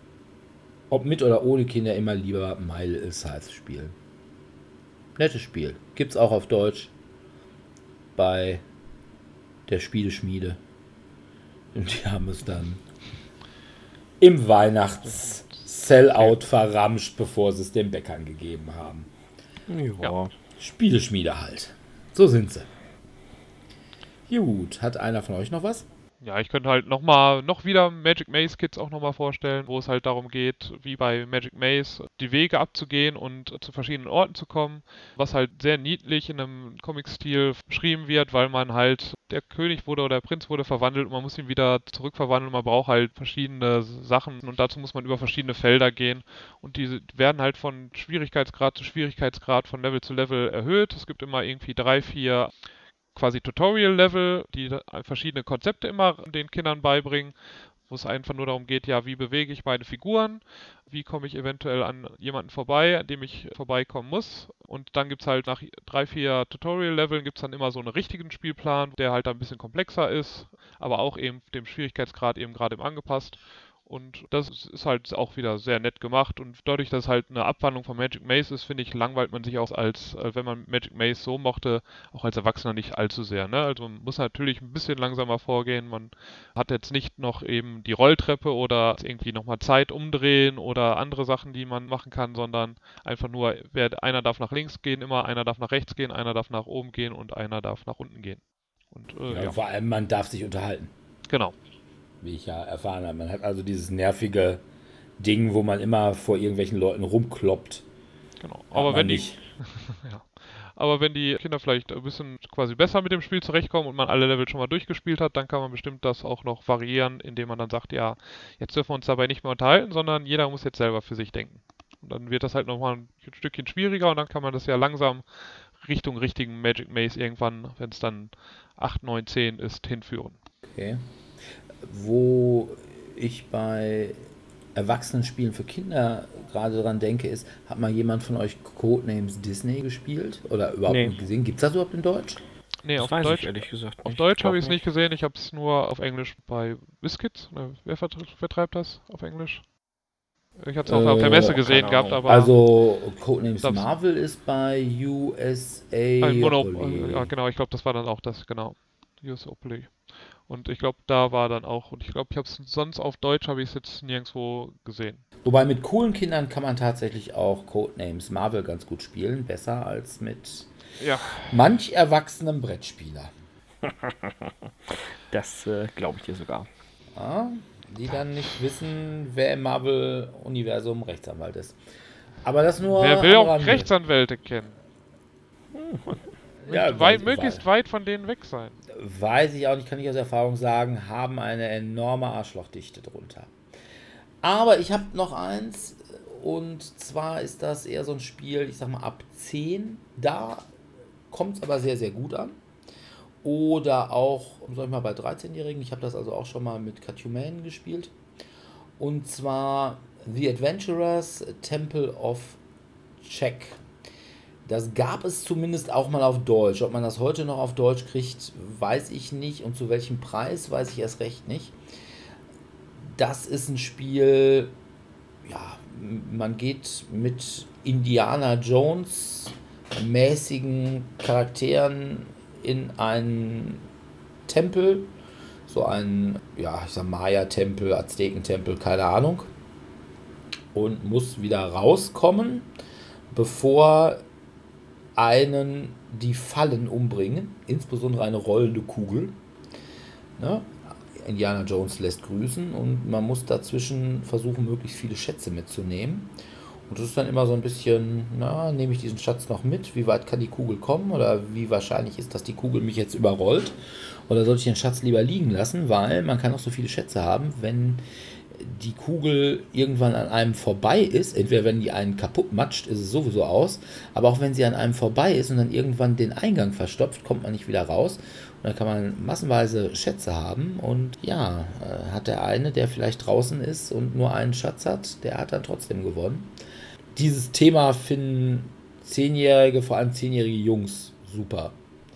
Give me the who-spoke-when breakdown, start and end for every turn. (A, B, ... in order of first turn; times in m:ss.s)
0:00.9-0:04.0 A
0:05.2-0:06.9 A
0:08.2-0:08.6 A
0:09.7-0:10.6 A
0:11.7-0:12.8 A
0:14.2-0:19.1 A
0:19.7-0:20.3 B
0:20.6-0:22.7 A
0:24.3-0:25.9 A
0:26.2-0:52.5 C
0:53.2-0:57.3 C
0:57.9-1:39.6 C
1:39.3-1:40.9 A
1:41.3-1:41.5 C
1:42.2-1:44.6 A
1:45.2-1:47.8 A
1:48.4-2:05.2 C
1:48.7-1:49.4 A
2:05.8-2:10.4 C
2:10.7-2:11.0 A
2:11.8-2:22.4 A
2:20.9-2:21.2 B
2:22.8-2:29.6 C
2:23.0-2:24.8 B
2:30.6-2:32.6 C
2:30.8-2:31.7 A
2:31.5-2:32.2 B
2:32.2-2:37.3 A
2:33.6-2:33.9 C
2:36.2-2:40.0 C
2:40.5-2:45.2 C
2:45.4-2:50.7 A
2:51.0-2:51.4 C
2:51.4-2:53.3 A
2:53.8-2:56.7 B
2:57.2-3:01.8 A
3:02.4-3:03.9 A
3:02.8-3:04.8 C
3:05.7-3:06.2 B
3:06.7-3:08.8 C
3:06.7-3:07.6 A
3:08.9-3:13.5 A
3:14.4-3:20.7 A
3:21.3-3:22.6 A
3:23.4-3:28.1 A
3:29.0-3:32.6 A
3:33.2-3:33.8 A
3:34.6-3:41.8 A
3:43.0-3:44.8 A
3:45.4-3:53.9 A
3:54.5-3:55.1 A
3:55.7-3:59.5 A
4:00.7-4:02.7 A
4:03.3-4:04.2 A
4:05.2-4:09.4 A
4:10.4-4:16.3 A
4:16.9-4:46.5 A
4:47.2-4:51.8 A